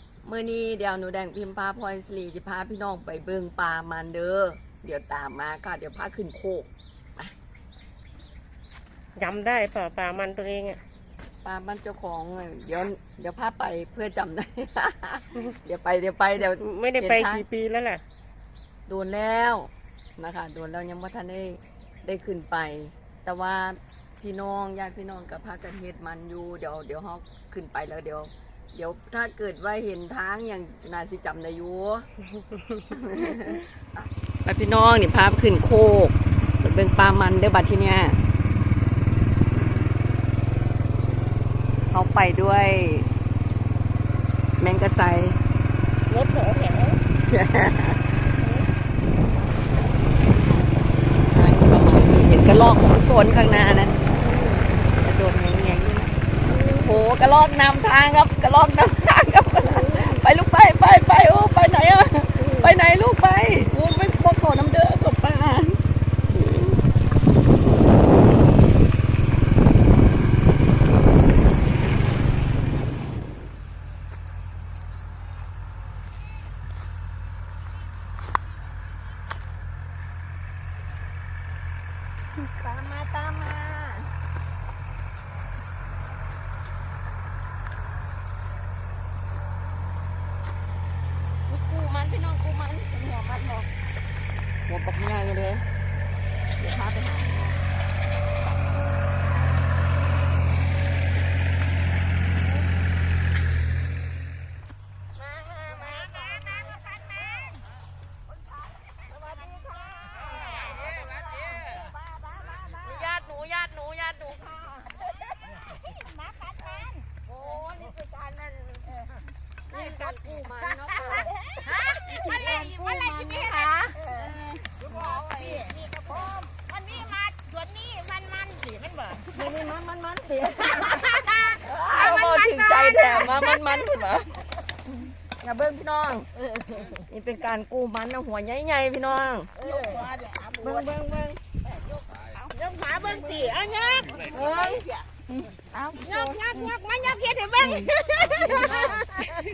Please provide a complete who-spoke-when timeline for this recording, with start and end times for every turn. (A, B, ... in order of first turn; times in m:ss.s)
0:00.2-0:07.3 A
0:09.2-0:10.8 B
0:11.4-0:17.4 A
0:16.6-0:18.0 B
0:18.9-0:32.1 A
0:32.9-0:38.2 A
0:41.9-0:43.1 A
0:44.6-0:45.4 A
0:46.1-0:47.0 B
0:47.3-0:48.0 A
0:51.2-0:54.2 A
0:54.2-0:54.6 B
0:54.9-0:56.2 A
0:56.5-0:57.0 B
0:56.7-1:06.8 A
0:59.8-1:00.2 B
1:02.4-1:02.7 B
1:22.4-1:24.1 A
1:31.5-1:33.7 A
1:34.7-1:35.6 A
1:36.6-1:37.6 A
1:45.2-1:47.3 A
1:49.1-1:51.7 A
1:50.2-1:52.8 C
1:52.8-1:55.1 A
1:55.9-1:57.1 C
1:57.2-1:59.1 A
1:59.7-2:04.0 A
2:01.1-2:09.3 C
2:09.3-2:14.4 A
2:10.8-2:13.2 C
2:15.0-2:16.3 A
2:16.6-2:16.9 C
2:17.1-2:19.5 A
2:19.6-2:20.1 C
2:20.6-2:21.4 A
2:22.5-2:24.6 C
2:23.6-2:24.1 B
2:24.3-2:24.8 A
2:25.4-2:26.6 A
2:26.0-2:29.0 C
2:27.6-2:29.1 A
2:27.8-2:28.4 B